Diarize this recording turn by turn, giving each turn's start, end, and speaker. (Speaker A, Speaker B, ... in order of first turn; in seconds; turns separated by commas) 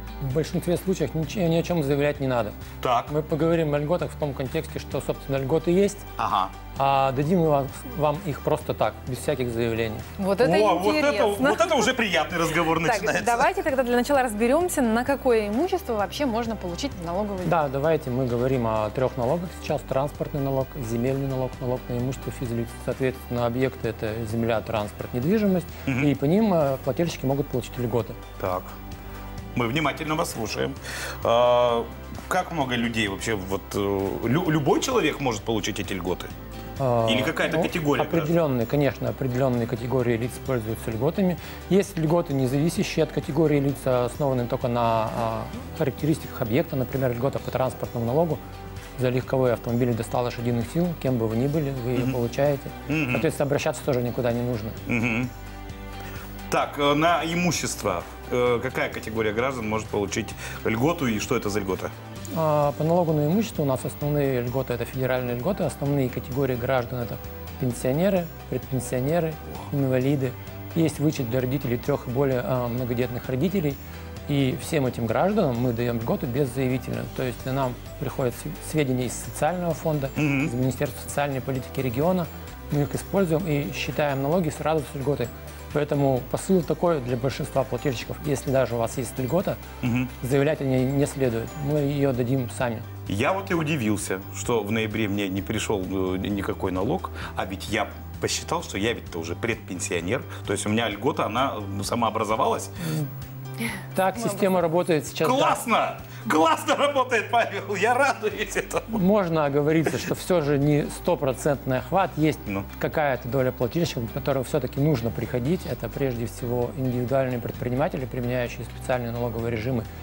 Speaker A: 0.2-2.5, Speaker B: 2.8-3.1, Speaker A: 3.1-6.0, Speaker B: 6.2-6.5, Speaker A: 6.7-10.1, Speaker C: 10.2-11.8, Speaker B: 10.4-13.5, Speaker C: 12.7-17.6, Speaker A: 17.4-28.2, Speaker B: 25.9-26.1, Speaker B: 28.4-28.7, Speaker B: 29.5-36.3, Speaker A: 36.8-48.4, Speaker B: 37.0-38.3, Speaker A: 49.0-54.8, Speaker B: 52.9-53.3, Speaker B: 54.9-55.3, Speaker B: 56.5-61.9, Speaker A: 62.3-89.6, Speaker B: 80.2-80.5, Speaker B: 89.8-90.1, Speaker A: 90.2-92.9, Speaker B: 93.1-102.8, Speaker A: 103.9-105.7, Speaker B: 105.2-109.0, Speaker A: 108.9-119.8